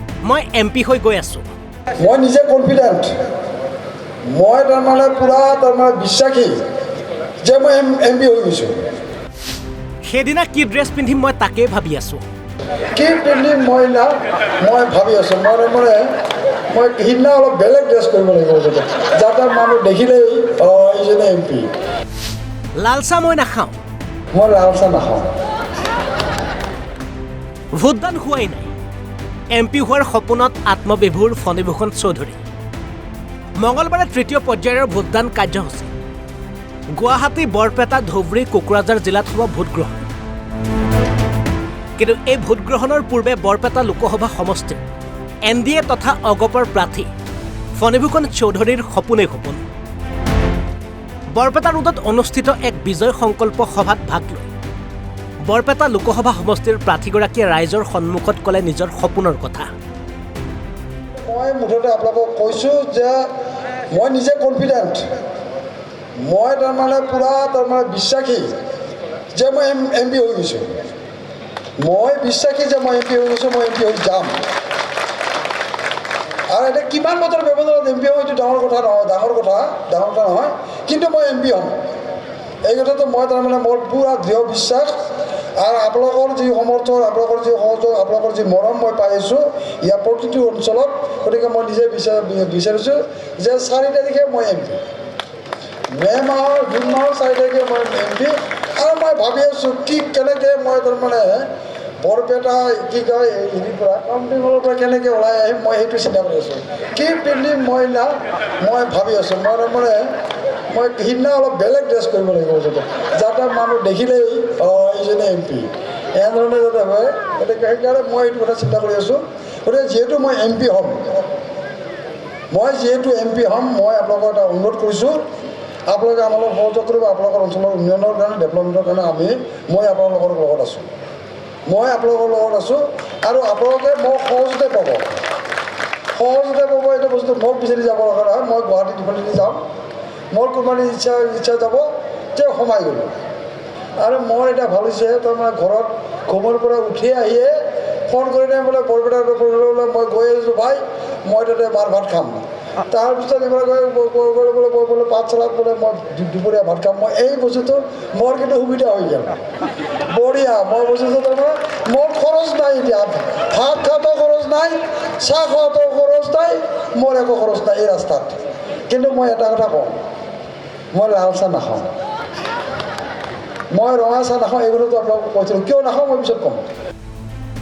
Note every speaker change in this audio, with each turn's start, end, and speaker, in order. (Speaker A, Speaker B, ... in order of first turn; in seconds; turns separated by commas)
Speaker A: 0.2-1.4, Speaker B: 2.0-3.1, Speaker B: 4.3-6.5, Speaker B: 7.4-8.8, Speaker A: 10.0-12.2, Speaker B: 12.9-16.1, Speaker B: 16.7-21.7, Speaker A: 22.7-23.8, Speaker B: 24.3-25.3, Speaker A: 27.7-28.7, Speaker A: 29.5-32.4, Speaker A: 33.6-35.9, Speaker A: 36.9-40.1, Speaker A: 42.0-44.8, Speaker A: 45.4-47.1, Speaker A: 47.8-49.6, Speaker A: 51.3-54.5, Speaker A: 55.5-59.7, Speaker B: 61.2-63.3, Speaker B: 63.9-65.0, Speaker B: 66.2-68.5, Speaker B: 69.3-70.7, Speaker B: 71.8-74.4, Speaker B: 76.5-81.8, Speaker B: 82.6-84.9, Speaker B: 85.6-94.8, Speaker B: 95.9-101.5, Speaker B: 102.0-110.1, Speaker B: 110.7-121.1, Speaker B: 122.5-125.2, Speaker B: 125.9-130.9, Speaker B: 131.7-135.1, Speaker B: 136.1-139.6, Speaker B: 140.3-143.1, Speaker B: 144.0-159.4, Speaker B: 160.1-169.9, Speaker B: 170.9-171.9, Speaker B: 173.7-176.6